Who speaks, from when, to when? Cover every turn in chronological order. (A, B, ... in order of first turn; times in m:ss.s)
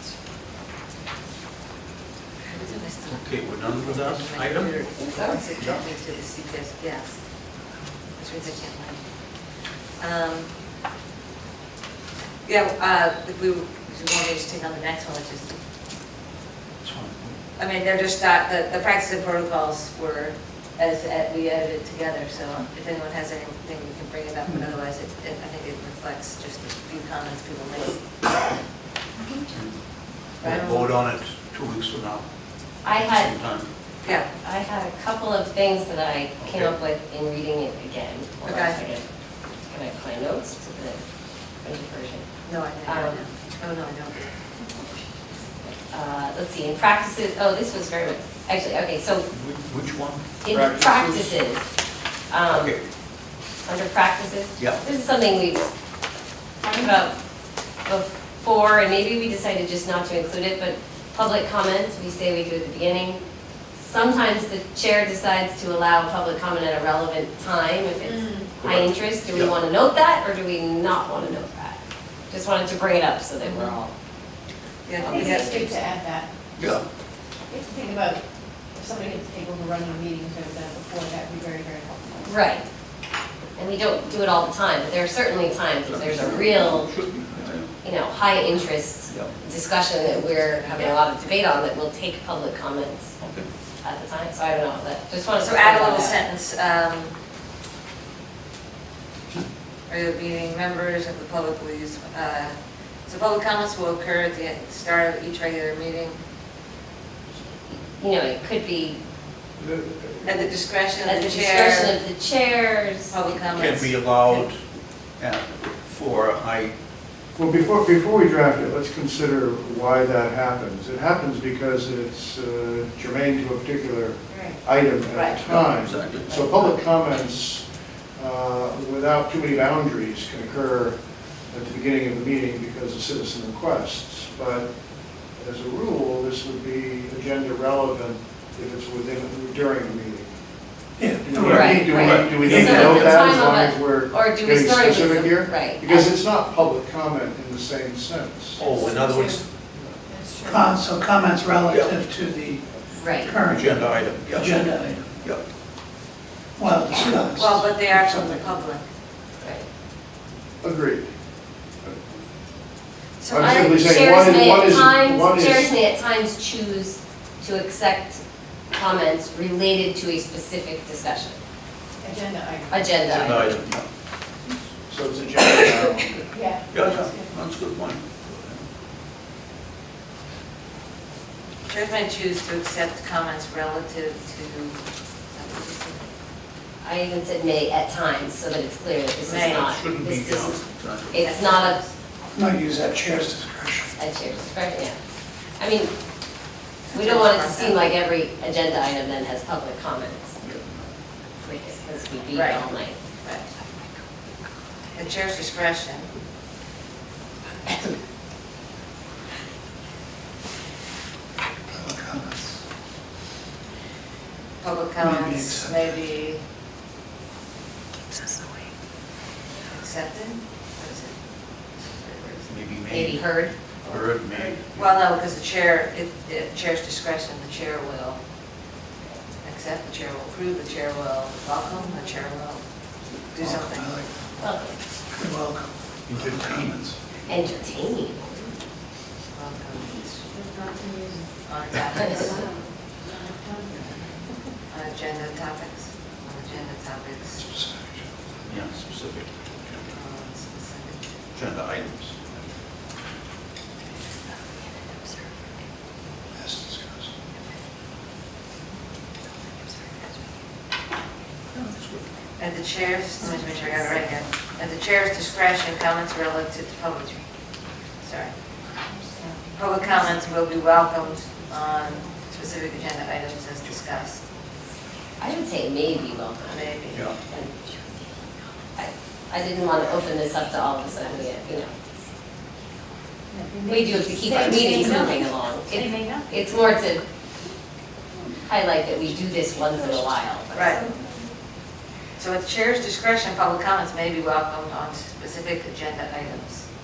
0:02.5-0:07.2 A
0:03.1-0:04.9 B
0:05.0-0:05.4 C
0:08.2-0:09.0 A
0:10.0-0:10.5 A
0:12.4-0:15.6 A
0:16.8-0:17.3 B
0:17.6-0:28.1 A
0:30.4-0:32.2 B
0:30.4-0:30.9 A
0:32.8-0:33.3 C
0:32.9-0:33.7 B
0:34.4-0:39.0 C
0:36.4-0:36.7 B
0:38.4-0:38.8 A
0:39.7-0:41.0 C
0:41.6-0:42.2 C
0:42.4-0:44.3 A
0:42.8-0:43.2 C
0:45.6-0:49.3 C
0:49.3-0:50.2 B
0:50.4-0:51.6 C
0:50.5-0:51.3 D
0:52.3-0:52.7 C
0:53.6-0:55.7 C
0:56.7-0:57.1 C
0:57.8-1:03.2 C
1:03.8-1:11.8 C
1:08.0-1:08.5 E
1:08.6-1:09.5 B
1:12.3-1:13.9 C
1:14.8-1:15.6 A
1:15.0-1:15.8 C
1:15.0-1:16.3 E
1:16.6-1:16.8 B
1:17.5-1:22.3 E
1:22.2-1:22.6 C
1:23.6-1:26.9 C
1:25.9-1:27.7 B
1:27.8-1:33.1 C
1:30.0-1:31.0 A
1:33.2-1:33.5 B
1:33.8-1:36.2 C
1:35.4-1:37.1 A
1:39.9-1:42.6 A
1:43.1-1:46.2 A
1:48.0-1:49.0 C
1:49.6-1:50.5 D
1:50.2-1:52.0 A
1:51.0-1:53.1 C
1:53.1-1:54.0 A
1:53.5-1:54.6 B
1:55.2-1:56.7 B
1:57.3-2:07.6 D
2:04.3-2:04.6 A
2:05.1-2:05.4 A
2:05.4-2:06.3 B
2:08.2-2:11.0 D
2:11.5-2:14.7 D
2:15.4-2:20.3 D
2:21.0-2:23.1 F
2:21.2-2:28.7 D
2:21.4-2:22.9 B
2:21.4-2:26.1 C
2:28.6-2:29.4 B
2:28.6-2:29.4 E
2:30.1-2:30.7 E
2:30.4-2:35.2 F
2:33.0-2:33.3 C
2:33.5-2:34.6 B
2:35.1-2:35.4 B
2:36.6-2:38.6 F
2:37.4-2:38.8 A
2:40.6-2:41.1 D
2:43.2-2:43.6 A
2:43.3-2:45.7 D
2:43.3-2:51.4 C
2:52.0-2:53.0 E
2:52.7-2:53.6 C
2:53.2-2:53.9 B
2:54.9-2:56.3 D
2:56.3-2:57.3 E
2:56.7-2:58.6 B
3:01.7-3:06.1 A
3:06.8-3:11.8 C
3:09.2-3:09.7 A
3:09.3-3:11.2 B
3:11.1-3:11.9 A
3:12.3-3:13.9 F
3:14.0-3:15.0 C
3:15.6-3:15.9 C
3:16.9-3:17.9 A
3:16.9-3:20.4 C
3:20.4-3:20.7 B
3:21.4-3:23.0 C
3:22.3-3:22.6 A
3:24.9-3:26.1 A
3:31.7-3:32.6 F
3:34.6-3:36.4 A
3:35.0-3:36.0 F
3:39.7-3:41.2 A
3:41.8-3:42.6 A
3:42.5-3:43.2 B
3:42.9-3:43.5 C
3:43.8-3:44.9 B
3:44.7-3:48.2 A
3:49.4-3:52.6 A
3:53.3-3:53.9 A
3:53.6-3:54.1 F
3:54.4-3:54.8 C
3:55.1-3:56.7 F
3:56.1-3:57.0 B
3:57.3-3:58.5 C
3:59.3-4:00.5 A
4:00.5-4:01.2 E
4:01.4-4:02.5 A
4:03.3-4:03.7 E
4:04.7-4:07.4 A
4:07.4-4:08.0 F
4:08.5-4:09.8 B
4:09.9-4:11.0 A
4:11.3-4:12.2 B
4:16.3-4:17.1 F
4:21.5-4:22.0 B
4:22.4-4:27.2 A
4:28.0-4:28.3 A
4:29.1-4:29.3 E
4:29.5-4:34.2 A
4:35.2-4:36.7 C
4:36.5-4:37.1 A
4:37.2-4:37.5 C
4:38.8-4:41.7 C
4:43.3-4:46.3 E
4:43.6-4:47.0 C
4:48.4-4:50.8 C
4:50.5-4:50.9 A
4:52.2-4:56.6 A